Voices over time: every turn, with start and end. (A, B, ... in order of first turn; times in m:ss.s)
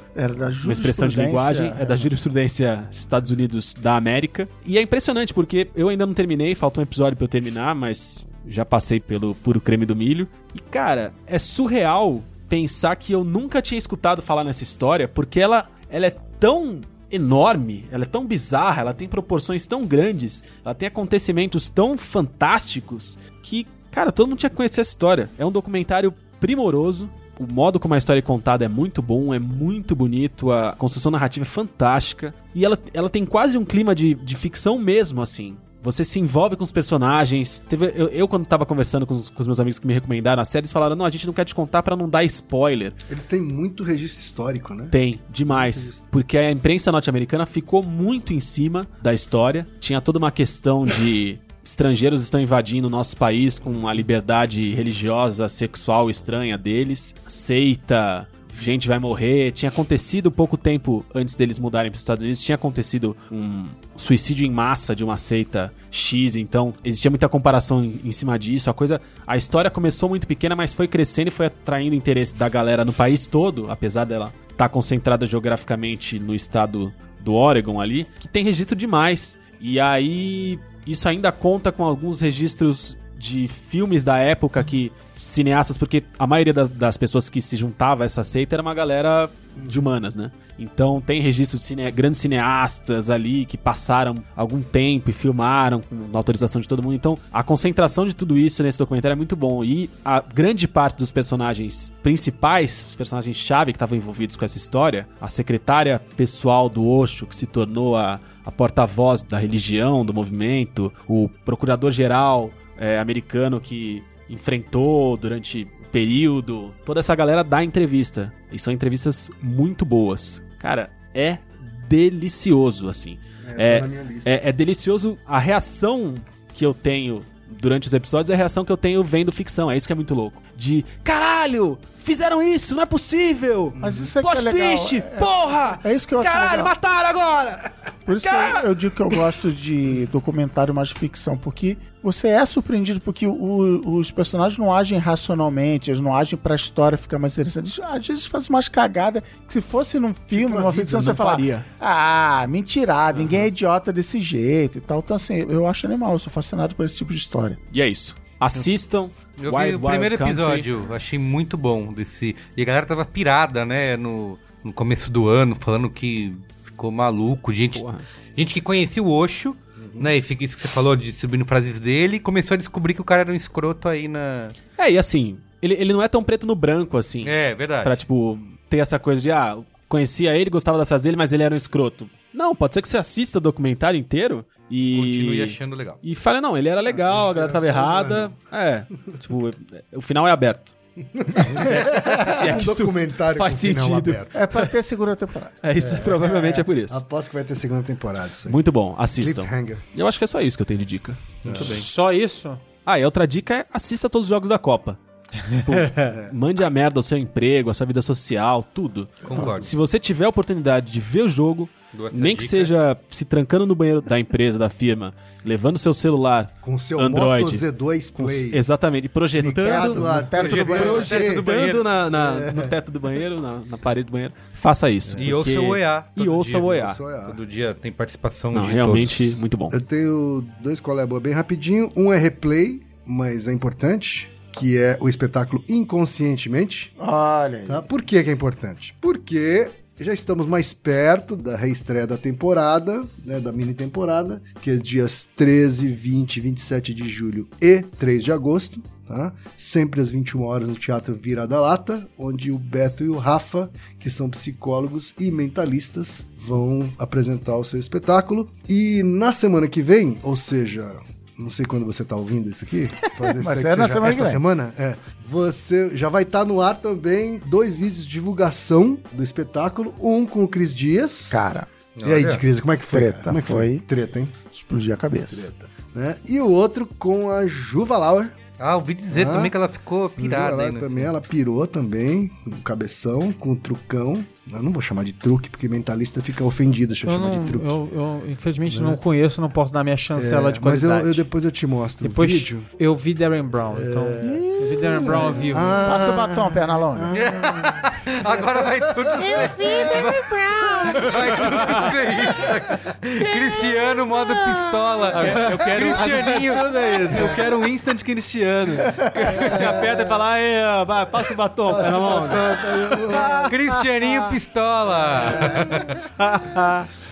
0:00.2-0:02.1 A
0:00.6-0:43.0 B
0:43.1-0:45.0 C
0:44.9-2:18.6 B
0:45.5-0:46.0 C
2:03.4-2:04.3 C
2:13.8-2:14.1 C
2:13.8-2:16.7 A
2:18.1-2:37.6 A
2:30.3-2:31.2 C
2:30.9-2:31.7 B
2:33.1-2:33.5 B
2:37.7-2:40.7 B
2:39.4-2:47.8 D
2:47.7-2:48.1 B
2:48.4-2:54.6 D
2:49.8-2:50.1 C
2:54.8-3:10.7 B
2:57.2-2:58.0 D
3:04.9-3:06.0 D
3:06.9-3:08.4 C
3:11.2-3:14.4 C
3:11.4-3:14.7 B
3:14.3-3:15.6 A
3:15.6-3:17.0 B
3:15.8-3:18.6 C
3:18.5-3:21.9 B
3:19.2-3:19.8 C
3:21.4-3:21.9 C
3:21.6-3:22.6 E
3:22.9-3:47.0 B
3:25.8-3:26.1 E
3:26.1-3:26.3 C
3:29.2-3:29.7 C
3:29.3-3:29.7 D
3:31.9-3:32.7 D
3:36.6-3:38.7 C
3:39.4-3:41.5 C
3:39.6-3:40.9 A
3:40.4-3:41.9 D
3:42.1-3:42.7 C
3:45.1-3:45.3 C
3:45.2-3:46.7 D
3:46.4-3:47.4 C
3:47.2-3:49.1 D
3:48.5-3:49.8 B
3:48.9-3:56.9 C
3:57.0-3:57.9 A
3:57.7-4:31.4 C
4:23.2-4:24.4 A
4:31.3-4:31.7 A
4:32.0-4:32.4 D
4:32.0-4:34.4 C
4:32.9-4:33.8 A
4:34.5-4:35.5 A
4:35.3-4:38.4 C
4:38.6-4:41.1 D
4:39.1-4:39.5 C
4:40.2-4:47.8 C
4:47.0-4:51.3 E
4:48.7-4:49.0 C
4:50.2-4:52.7 C
4:52.0-4:56.1 E
4:53.7-5:00.1 C
4:54.2-4:57.2 A
4:57.1-5:07.3 D
4:59.2-5:01.1 E
5:00.6-5:02.5 C
5:01.4-5:01.9 B
5:05.1-5:12.8 B
5:05.3-5:06.0 C
5:07.0-5:07.5 C
5:09.3-5:10.1 C
5:11.7-5:13.5 C
5:13.1-5:13.8 E
5:13.5-5:15.9 D
5:15.1-5:16.2 C
5:16.2-5:16.9 E